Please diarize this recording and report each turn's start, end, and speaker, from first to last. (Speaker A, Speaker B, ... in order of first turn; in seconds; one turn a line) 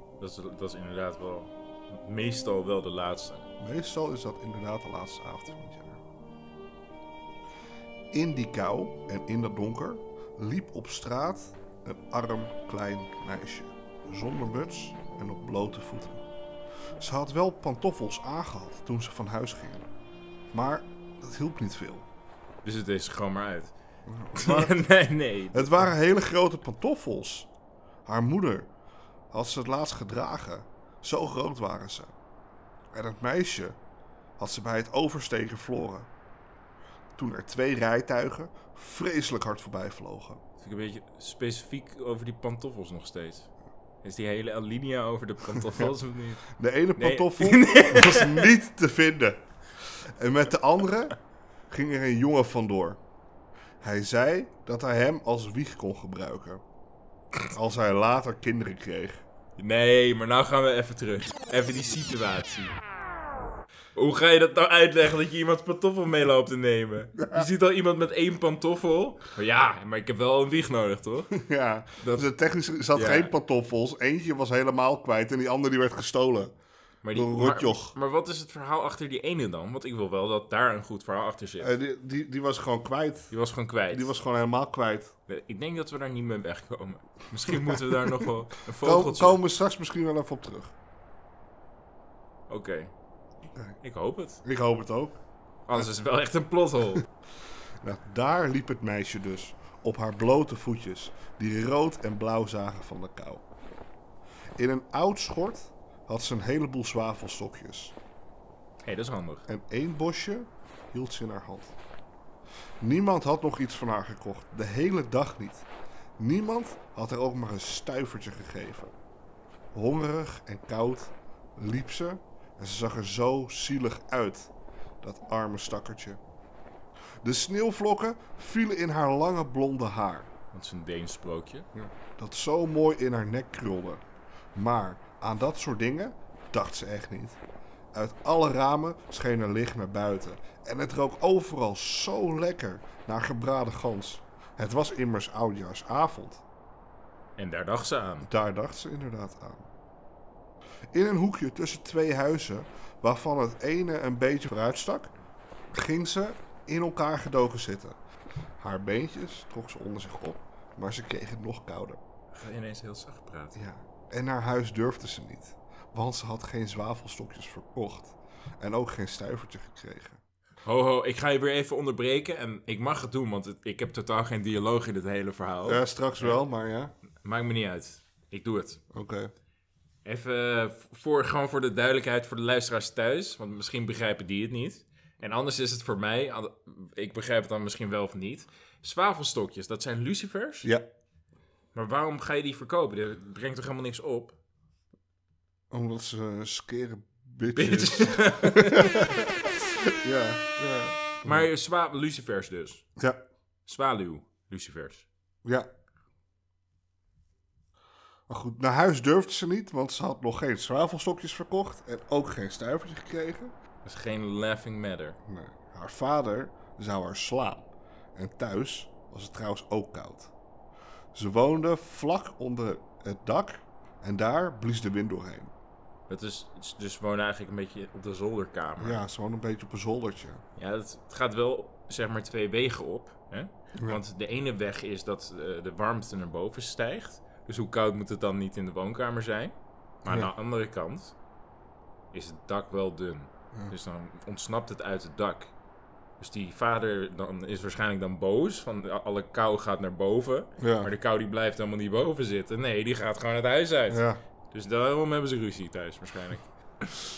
Speaker A: 0.2-3.5
Speaker B: 3.6-6.0
Speaker B: 8.1-16.2
Speaker B: 17.0-19.9
Speaker B: 20.5-22.1
Speaker A: 22.6-23.7
Speaker B: 24.1-24.8
Speaker A: 24.3-25.9
Speaker B: 25.5-27.5
Speaker B: 28.1-28.7
Speaker B: 29.3-32.1
Speaker B: 32.9-33.8
Speaker B: 34.4-36.1
Speaker B: 37.2-40.4
Speaker A: 40.6-43.5
Speaker A: 44.0-46.4
Speaker B: 46.6-49.4
Speaker A: 47.0-48.5
Speaker B: 50.0-51.2
Speaker B: 51.7-53.0
Speaker B: 53.8-56.6
Speaker B: 57.5-59.2
Speaker A: 59.6-62.8
Speaker A: 63.9-71.3
Speaker B: 67.1-67.5
Speaker B: 71.3-76.5
Speaker A: 72.0-72.3
Speaker A: 72.9-73.3
Speaker A: 77.0-81.7
Speaker B: 77.1-78.0
Speaker B: 81.6-83.3
Speaker A: 83.3-84.1
Speaker B: 83.9-85.1
Speaker A: 85.3-89.4
Speaker B: 87.5-88.2
Speaker B: 88.8-90.7
Speaker A: 92.5-92.9
Speaker B: 93.5-93.8
Speaker A: 93.8-94.4
Speaker B: 94.4-95.2
Speaker A: 95.7-97.0
Speaker B: 97.8-103.5
Speaker B: 104.6-107.9
Speaker A: 108.8-109.5
Speaker B: 109.5-111.7
Speaker B: 112.8-115.7
Speaker B: 116.2-118.9
Speaker B: 119.7-126.2
Speaker B: 127.2-130.3
Speaker A: 130.5-131.7
Speaker B: 131.7-134.0
Speaker B: 134.5-137.4
Speaker B: 137.9-146.4
Speaker A: 147.4-148.3
Speaker B: 148.2-149.7
Speaker B: 150.9-155.1
Speaker B: 155.7-158.0
Speaker B: 158.6-162.0
Speaker A: 162.3-163.6
Speaker B: 163.5-170.2
Speaker A: 170.6-176.4
Speaker B: 175.6-176.9
Speaker A: 177.2-178.8
Speaker B: 178.9-179.3
Speaker A: 180.0-190.7
Speaker A: 191.7-194.4
Speaker B: 195.7-199.3
Speaker A: 197.6-199.2
Speaker B: 200.0-201.5
Speaker A: 201.2-202.8
Speaker A: 203.7-205.1
Speaker B: 208.3-213.5
Speaker A: 213.8-215.2
Speaker B: 215.3-220.3
Speaker B: 221.1-225.5
Speaker A: 226.1-229.0
Speaker B: 228.8-230.4
Speaker A: 230.6-241.2
Speaker B: 240.0-240.3
Speaker A: 242.1-245.5
Speaker A: 246.2-256.5
Speaker B: 250.6-250.9
Speaker B: 253.9-254.2